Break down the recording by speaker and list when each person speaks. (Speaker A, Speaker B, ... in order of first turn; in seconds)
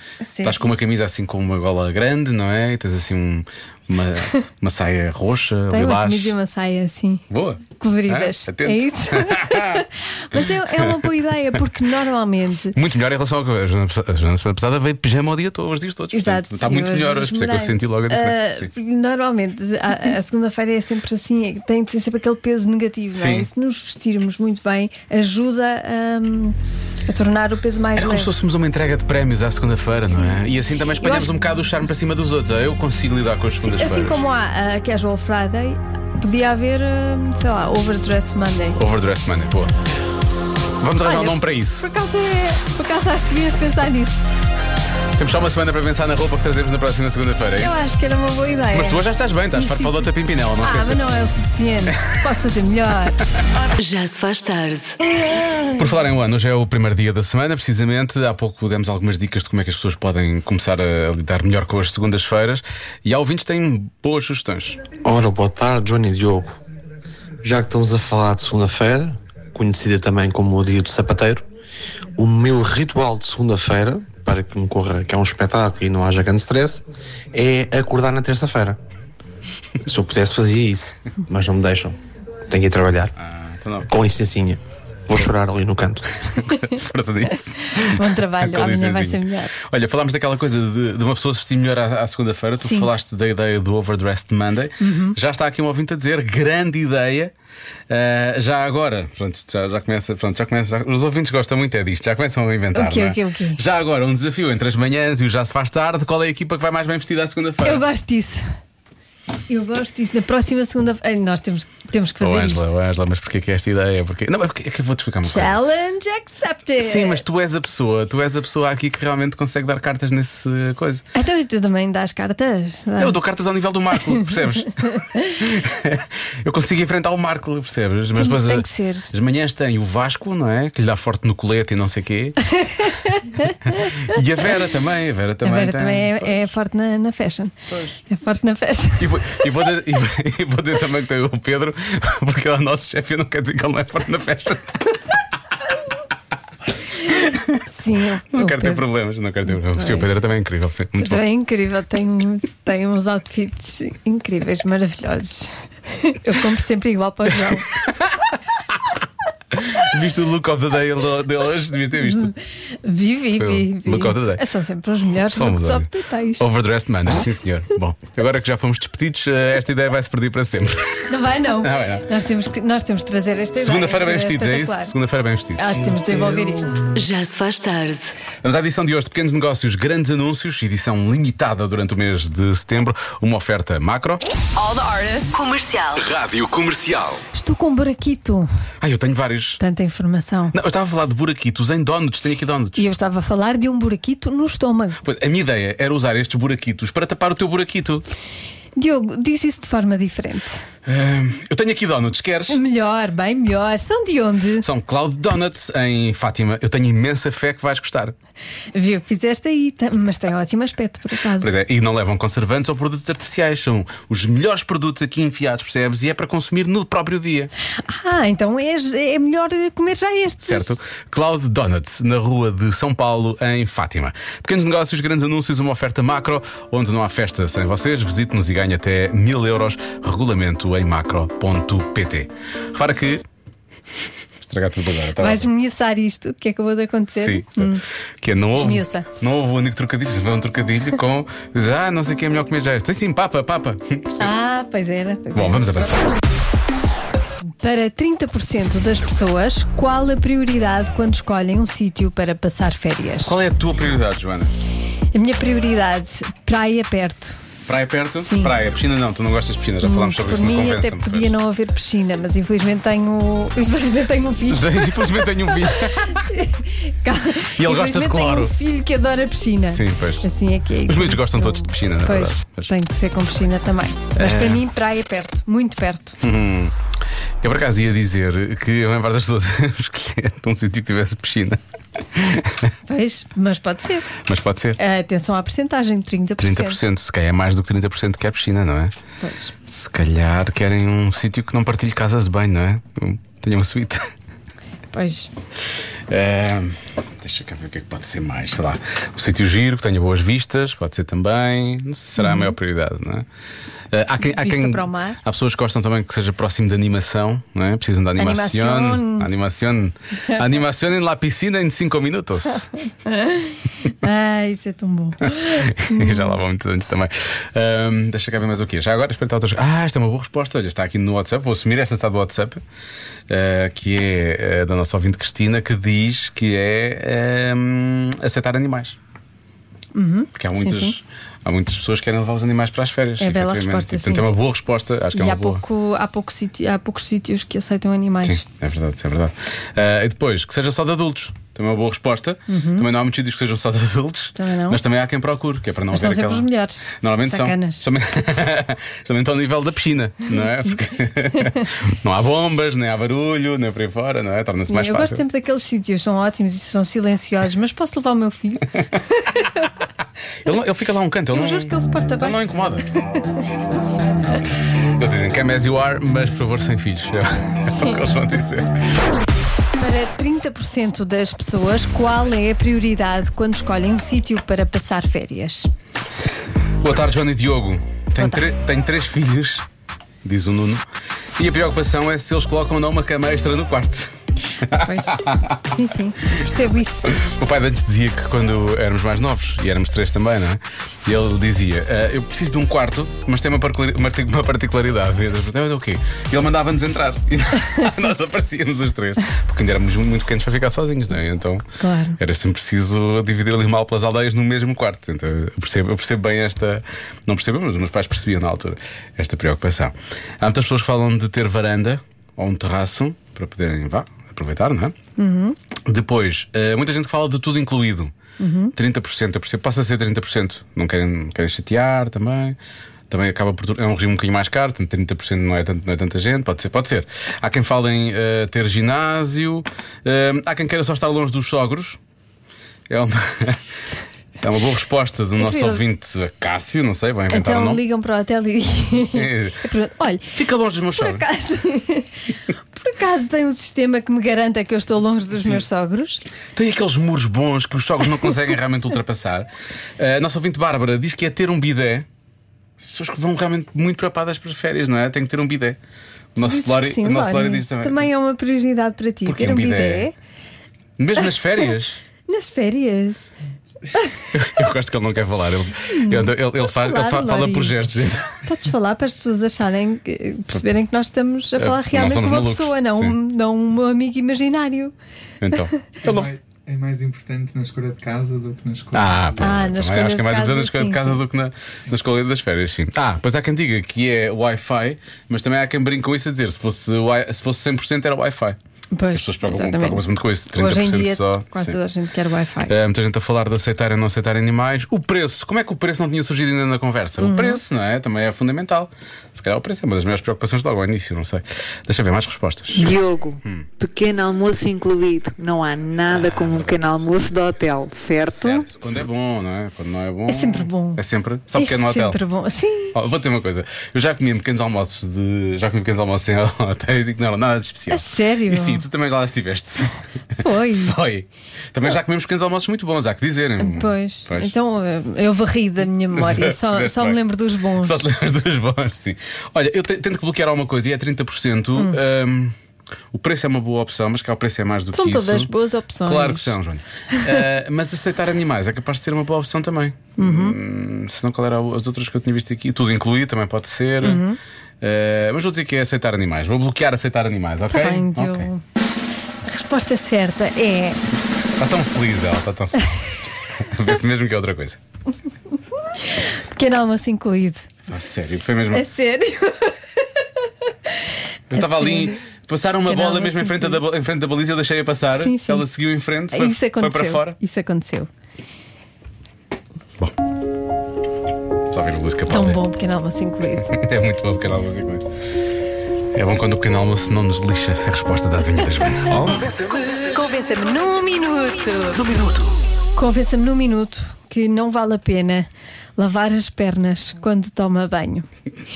Speaker A: 0.2-0.7, 5.7-7.2, 7.8-12.8, 16.1-26.6, 27.1-28.3, 31.0-31.7, 33.6-38.8, 41.0-44.2, 47.6-50.1, 50.6-53.2, 55.2-55.7, 87.7-89.5, 92.6-92.9, 94.8-95.2, 102.7-103.6, 107.6-108.5, 109.5-112.7, 115.2-117.2, 121.1-123.2, 124.1-125.4, 128.2-129.1, 132.6-133.9, 135.4-139.4, 147.1-148.8, 149.7-150.2, 151.0-157.7, 162.0-166.5, 171.1-174.9, 175.6-176.8, 187.3-188.5, 189.6-190.6, 192.8-195.0, 198.8-200.6, 202.5-204.7, 208.7-211.6, 217.9-220.8, 235.2-237.8, 238.6-239.1, 244.2-245.9, 247.6-253.4, 255.1-257.4, 258.2-258.5, 259.8-276.2, 282.9-284.1, 284.8-286.8, 289.2-289.5, 294.9-295.3, 302.2-302.5, 304.2-305.2, 308.2-309.3, 313.1-316.4, 329.9-331.0, 333.2-334.3, 335.1-338.4, 342.5-342.9, 344.4-344.8, 345.9-347.9, 350.3-350.7, 351.3-351.7, 354.7-359.7, 361.3-362.4, 367.7-368.0, 369.8-375.7, 384.7-387.2, 401.8-402.2, 415.2-415.6, 418.4-418.8, 435.4-435.8, 437.3-440.4, 440.9-446.2, 456.4-460.1, 462.3-463.3, 464.0-464.2, 465.9-467.8, 468.4-474.9, 479.4-481.2, 488.9-492.8, 497.2-497.6, 510.3-511.0, 511.6-513.0, 517.9-518.9, 520.4-521.0, 523.6-528.0, 534.9-536.5, 537.1-537.4, 540.2-540.6, 544.0-544.4, 547.7-548.6, 549.5-551.0, 555.9-557.7, 558.7-560.2, 560.9-562.2, 562.9-563.8, 565.2-565.6, 566.3-568.1, 572.3-573.7, 580.0-582.0, 583.0-588.3
Speaker B: 0.4-6.3, 7.3-11.1, 12.8-18.7, 23.1-23.5, 27.9-34.2, 38.8-39.7, 40.8-41.9, 45.1-47.8, 48.7-51.2, 51.9-52.1, 55.8-64.8, 83.2-83.9, 86.3-97.3, 97.9-107.8, 112.2-115.6, 116.8-121.0, 123.0-132.4, 133.8-136.5, 139.0-144.8, 148.3-151.2, 157.8-158.1, 159.5-162.3, 163.4-164.4, 165.3-171.1, 171.6-172.1, 173.6-176.1, 178.4-184.2, 186.0-187.2, 188.8-189.6, 190.5-192.9, 195.0-198.1, 200.9-202.6, 204.6-208.2, 211.4-217.5, 220.4-233.2, 234.4-235.5, 237.1-244.3, 245.3-246.1, 253.2-254.5, 257.7-261.3, 264.5-266.2, 267.5-268.5, 269.7-270.3, 270.9-272.7, 274.2-274.6, 276.2-276.8, 277.4-282.7, 284.2-284.8, 286.4-288.9, 289.7-294.1, 296.1-303.3, 303.9-312.7, 315.2-322.6, 323.3-329.0, 330.4-335.6, 338.2-355.2, 360.4-362.9, 365.0-368.7, 376.8-379.6, 380.2-380.9, 381.4-385.6, 387.1-401.7, 402.2-414.9, 415.9-418.1, 418.8-422.6, 423.1-432.0, 432.9-433.6, 434.4-437.8, 439.1-439.6, 440.3-441.2, 446.6-452.1, 452.8-455.8, 456.4-458.1, 459.2-460.1, 461.0-462.0, 464.3-468.4, 471.6-473.2, 475.4-476.3, 478.9-488.6, 489.1-491.8, 492.7-503.7, 506.1-506.8, 508.3-512.2, 512.9-519.9, 520.7-524.5, 526.1-527.2, 527.8-532.5, 533.1-535.5, 536.0-544.2, 544.8-548.5, 551.6-552.9, 553.6-554.8, 557.9-558.9, 561.5-567.4, 571.7-572.6, 573.6-575.1, 576.1-579.9, 582.0-582.5
Speaker C: 53.8-55.0, 176.9-178.1, 184.6-186.1
Speaker D: 65.0-66.6, 67.4-71.4, 72.2-78.8, 79.8-82.0, 82.5-83.1, 83.9-86.1
Speaker E: 476.0-479.3
Speaker F: 502.7-508.6